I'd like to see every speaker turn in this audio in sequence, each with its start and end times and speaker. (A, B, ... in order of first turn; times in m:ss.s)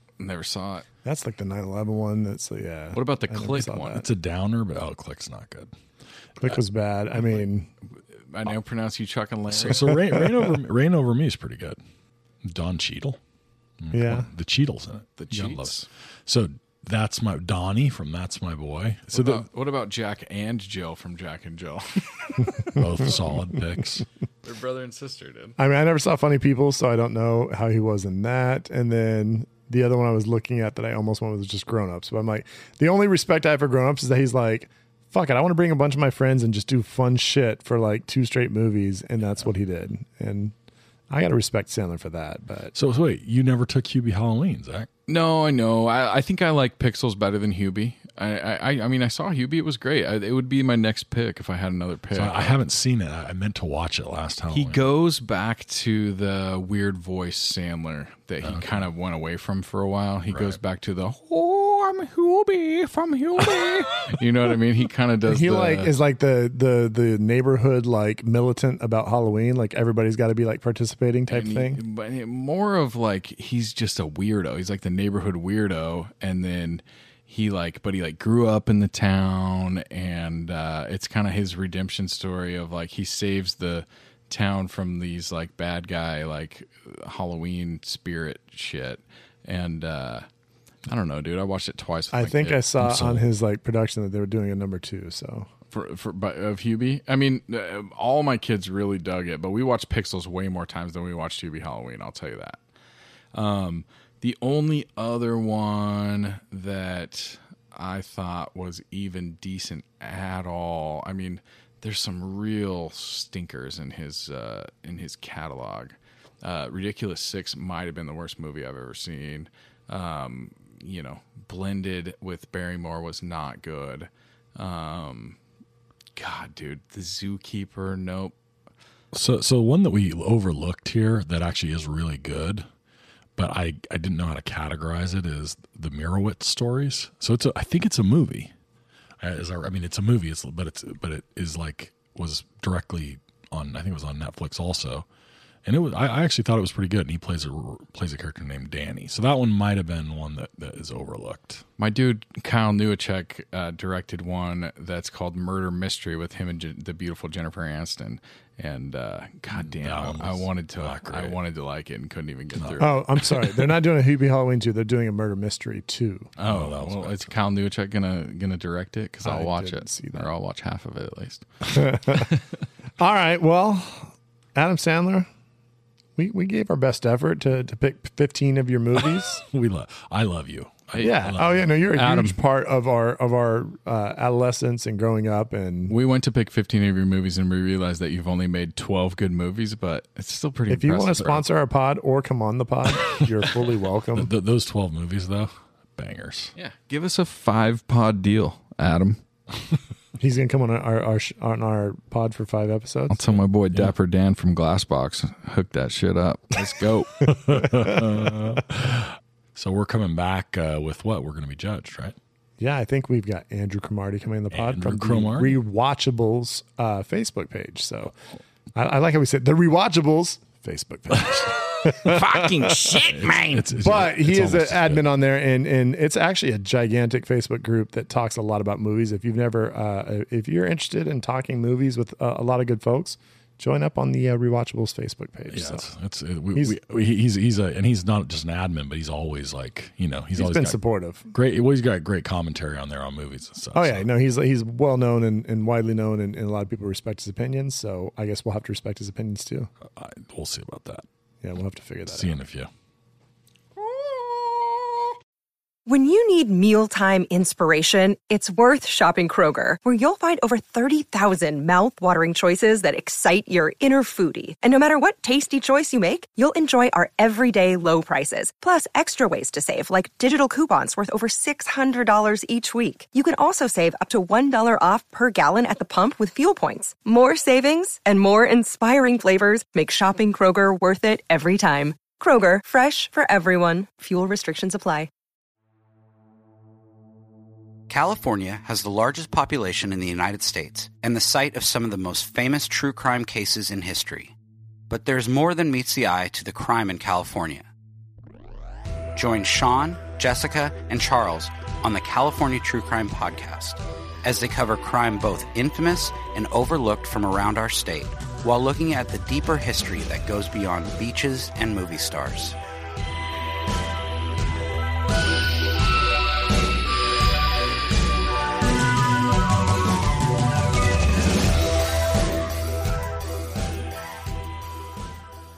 0:00.2-0:00.8 A
0:01.0-0:04.1 B
0:02.9-0:04.0 A
0:03.9-0:05.7 C
0:06.4-0:07.7 B
0:08.3-0:09.9 A
0:09.5-0:11.8 C
0:09.9-0:10.5 B
0:12.4-0:13.2 C
0:13.8-0:15.7 C
0:13.9-0:14.3 B
0:15.2-0:15.9 A
0:16.2-0:19.4 C
0:19.1-0:22.7 A
0:22.7-0:24.0 C
0:24.4-0:25.6 A
0:25.6-0:40.5 B
0:41.1-0:42.7 B
0:42.7-0:44.9 C
0:45.1-0:52.6 A
0:52.1-0:54.8 C
0:54.5-1:05.9 A
0:58.4-0:58.8 C
1:00.3-1:00.6 C
1:05.2-1:11.8 B
1:11.3-1:30.2 A
1:30.8-1:32.6 A
1:32.1-1:35.5 B
1:32.8-1:33.2 C
1:35.7-1:42.6 A
1:43.3-2:05.4 A
2:06.2-2:08.3 A
2:09.1-2:12.6 C
2:13.4-2:18.5 C
2:19.2-2:25.0 C
2:25.6-2:31.6 C
2:31.8-2:42.9 A
2:39.6-2:41.4 C
2:42.6-2:42.8 C
2:42.8-2:46.3 B
2:46.4-2:51.4 A
2:46.4-2:47.3 C
2:49.2-2:50.3 B
2:51.7-2:52.3 B
2:53.0-2:55.3 B
2:56.2-2:59.4 B
2:59.4-3:01.6 C
3:00.9-3:01.4 A
3:01.0-3:05.9 B
3:01.9-3:02.4 A
3:05.9-3:11.4 A
3:10.7-3:14.3 B
3:14.1-3:16.5 C
3:16.6-3:19.2 A
3:20.2-3:23.4 B
3:23.1-3:27.2 A
3:27.2-3:32.2 C
3:27.6-3:28.0 B
3:32.6-3:38.1 B
3:34.5-3:35.6 C
3:38.7-3:43.1 B
3:41.2-3:41.5 C
3:42.0-3:45.0 C
3:42.3-3:43.5 A
3:43.7-3:55.8 B
3:55.5-4:00.8 C
4:00.4-4:01.3 B
4:01.3-4:04.1 C
4:03.7-4:09.7 B
4:09.9-4:11.0 C
4:11.4-4:12.4 B
4:12.1-4:12.7 C
4:15.9-4:45.1 D
4:47.9-4:54.3 E
4:54.9-4:57.6 E
4:59.1-5:12.6 E